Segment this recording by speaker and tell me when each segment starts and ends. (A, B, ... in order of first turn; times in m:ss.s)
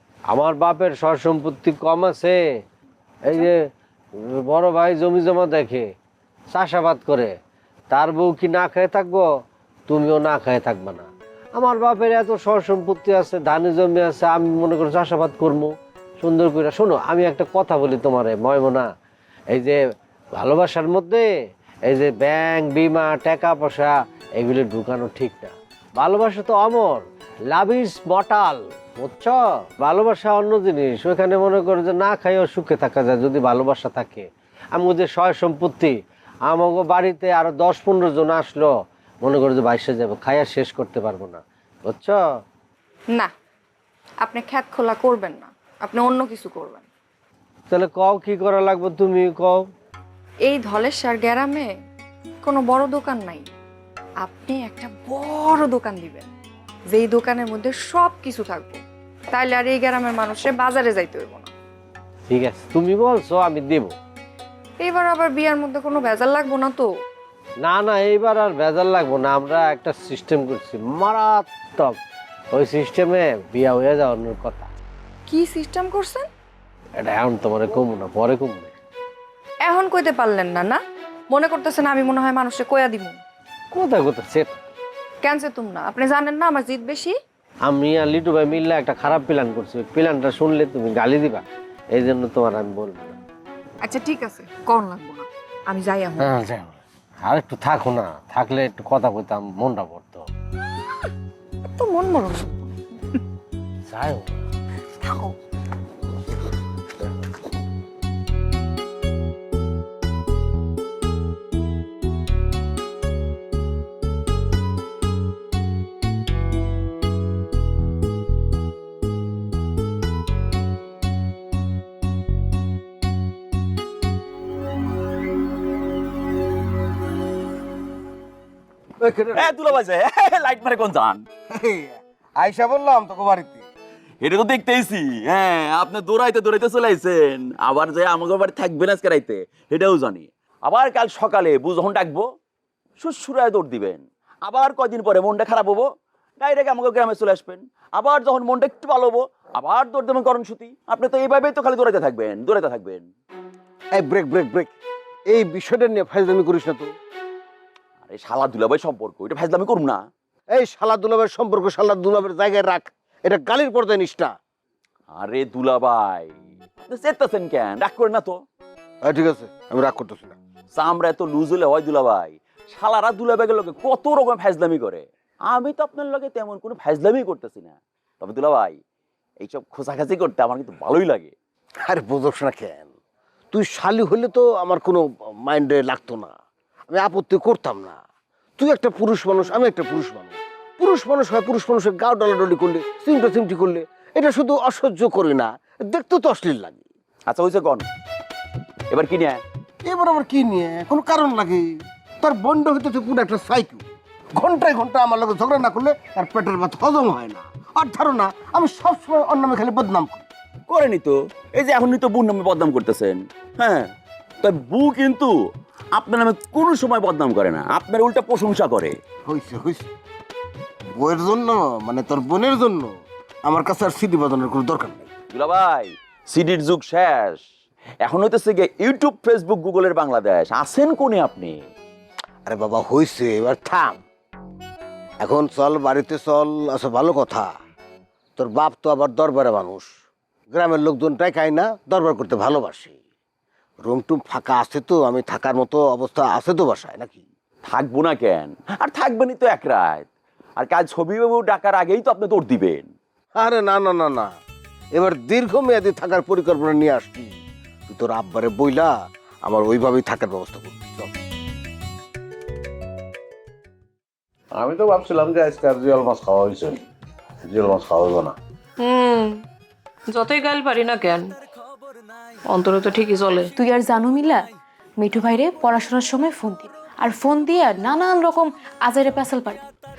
0:00.3-0:02.4 A
0:03.3-0:03.6 A
0:04.3-0:05.9 A
0:06.5-0:07.3 A
0:07.9-0:09.3 A
0:09.9-0:18.9 A
0:19.5-0:19.8 A
0:20.4-0:21.3 A
0:21.9-0:36.0 A
0:36.5-0:38.7 A
0:39.2-0:42.2 A
0:44.2-0:46.8 B
0:47.7-0:49.7 A
0:50.5-0:51.7 B
0:52.4-0:53.5 B
0:54.2-0:56.3 B
0:56.9-0:58.8 B
0:59.3-1:01.5 B
1:02.3-1:03.9 A
1:04.8-1:06.9 B
1:07.6-1:12.0 A
1:12.5-1:14.7 A
1:15.3-1:16.3 B
1:17.0-1:18.7 A
1:19.6-1:20.8 B
1:21.3-1:23.2 B
1:23.7-1:24.6 A
1:25.2-1:27.2 B
1:27.6-1:33.2 A
1:33.8-1:36.3 B
1:36.2-1:40.3 A
1:41.8-1:42.7 B
1:43.9-1:44.4 A
2:09.0-2:09.8 C
2:09.4-2:11.2 D
2:11.5-2:13.6 C
2:14.2-2:22.2 D
2:23.0-2:25.8 D
2:26.4-2:33.1 D
2:34.0-2:34.7 C
2:35.3-2:36.9 C
2:38.0-2:40.0 D
2:40.5-2:44.3 C
2:45.1-2:46.3 D
2:46.9-2:48.4 D
2:49.1-2:50.4 C
2:50.7-2:58.8 D
2:59.4-3:01.3 D
3:01.9-3:02.9 C
3:03.5-3:06.3 C
3:06.9-3:08.0 C
3:08.6-3:16.8 C
3:17.3-3:17.9 D
3:18.9-3:19.4 D
3:19.8-3:21.7 C
3:22.2-3:23.8 C
3:24.4-3:30.2 C
3:30.7-3:33.9 D
3:34.4-3:35.3 D
3:36.0-3:38.9 D
3:39.3-3:39.9 C
3:41.0-3:42.9 C
3:43.4-3:45.1 C
3:45.3-3:47.4 D
3:48.0-3:51.6 D
3:52.5-3:54.0 C
3:55.2-3:57.5 C
3:58.4-3:59.9 C
4:00.5-4:03.0 C
4:03.8-4:07.2 C
4:07.6-4:10.1 D
4:10.6-4:12.9 D
4:13.4-4:14.3 C
4:14.9-4:17.3 C
4:17.9-4:18.9 C
4:19.4-4:21.1 C
4:24.5-4:26.8 E
4:27.4-4:28.4 E
4:28.8-4:29.3 F
4:30.1-4:31.2 F
4:32.5-4:33.4 F
4:33.6-4:34.3 G
4:35.0-4:39.6 G